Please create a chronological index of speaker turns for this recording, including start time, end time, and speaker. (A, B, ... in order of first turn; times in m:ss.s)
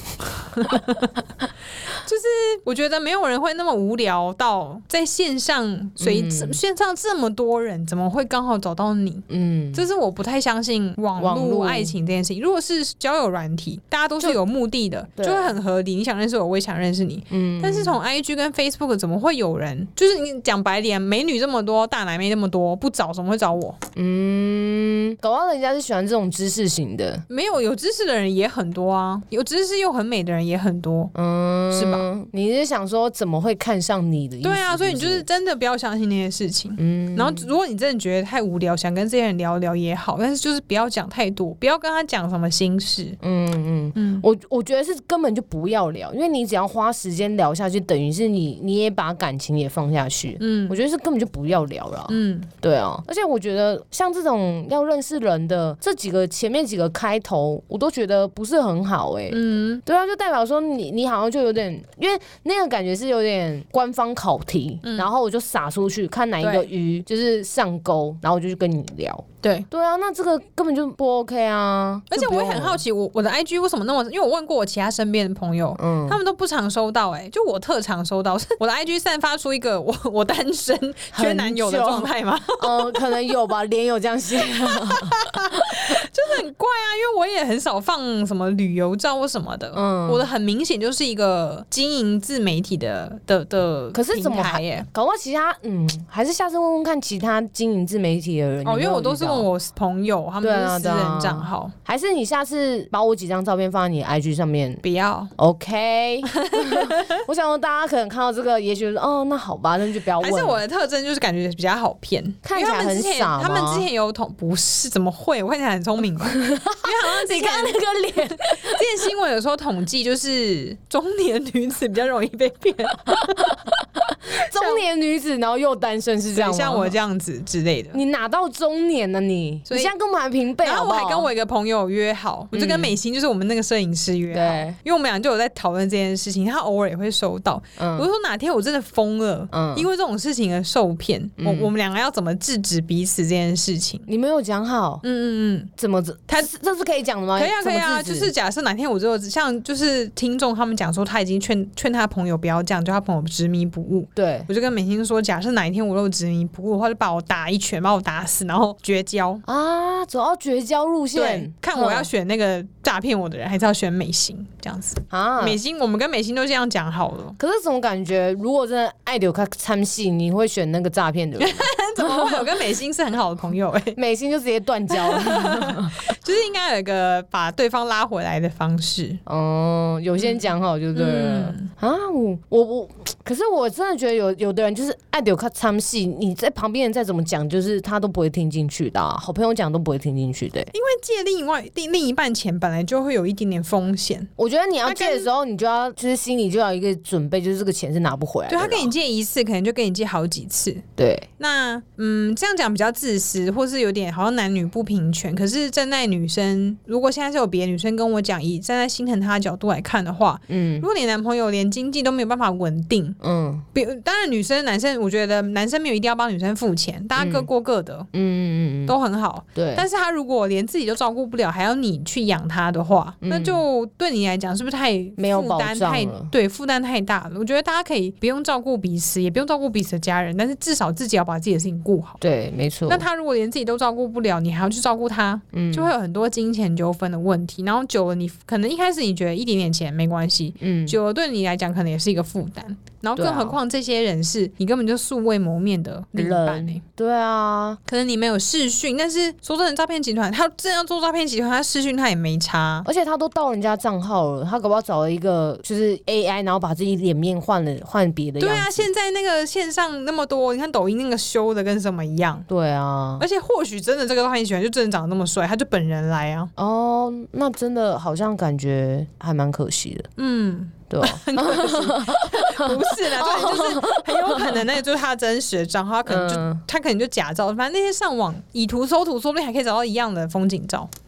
0:00.5-0:01.2 A
0:01.9-0:23.8 A
0:06.0-0:06.6 B
0:09.3-0:09.8 B
0:11.2-0:11.9 B
0:15.2-0:15.5 B
0:17.3-0:18.0 B
0:24.0-0:27.2 B
0:27.3-0:31.1 A
0:31.1-0:35.2 B
0:31.7-0:32.0 A
0:34.4-0:43.2 A
0:36.8-0:37.5 B
0:43.2-1:12.8 B
0:44.0-0:44.2 A
0:50.4-0:50.8 A
0:52.1-0:52.5 A
0:59.3-0:59.8 A
1:04.8-1:05.1 A
1:06.4-1:06.7 A
1:12.1-1:23.0 A
1:15.8-1:16.2 B
1:21.1-1:25.2 B
1:24.6-1:34.9 A
1:29.7-1:30.3 B
1:33.9-1:39.5 B
1:38.6-1:41.7 A
1:40.4-1:44.8 B
1:44.8-1:45.3 A
1:45.4-1:50.6 B
1:46.4-1:47.2 A
1:50.2-2:03.6 A
1:52.4-1:53.9 B
1:56.4-1:58.8 B
2:04.3-2:06.9 B
2:04.3-2:04.8 A
2:06.3-2:08.0 A
2:07.9-2:11.3 B
2:10.6-2:24.1 A
2:12.5-2:13.0 B
2:14.3-2:14.8 B
2:17.8-2:18.1 B
2:19.5-2:19.9 B
2:21.4-2:21.7 B
2:24.1-2:25.0 B
2:25.0-2:25.7 A
2:25.8-2:28.3 B
2:27.4-2:39.4 A
2:34.1-2:34.5 B
2:39.4-2:42.1 B
2:41.1-2:47.4 A
2:45.1-2:45.6 B
2:47.4-2:52.4 B
2:51.4-2:54.0 A
2:53.9-2:55.9 B
2:54.9-2:59.2 A
2:59.2-3:10.7 B
3:00.2-3:01.7 A
3:10.7-3:14.3 A
3:14.4-3:18.9 B
3:14.8-3:15.3 A
3:18.5-3:20.8 A
3:21.0-3:21.3 B
3:21.4-3:33.2 A
3:30.5-3:30.8 B
3:33.2-3:33.6 B
3:33.7-3:38.1 A
3:37.2-3:37.5 B
3:38.1-3:39.0 B
3:38.8-3:52.2 A
3:39.5-3:39.8 B
3:43.2-3:43.6 B
3:45.2-3:46.3 B
3:52.2-3:53.0 B
3:52.9-4:06.8 A
3:55.5-3:55.9 B
4:00.6-4:01.0 B
4:03.2-4:03.6 B
4:06.1-4:07.8 B
4:07.9-4:12.9 A
4:12.8-4:18.8 B
4:18.4-4:22.5 A
4:22.5-4:23.2 B
4:23.2-4:26.5 A
4:26.6-4:30.1 B
4:30.2-4:40.9 A
4:30.9-4:34.6 B
4:36.0-4:36.6 B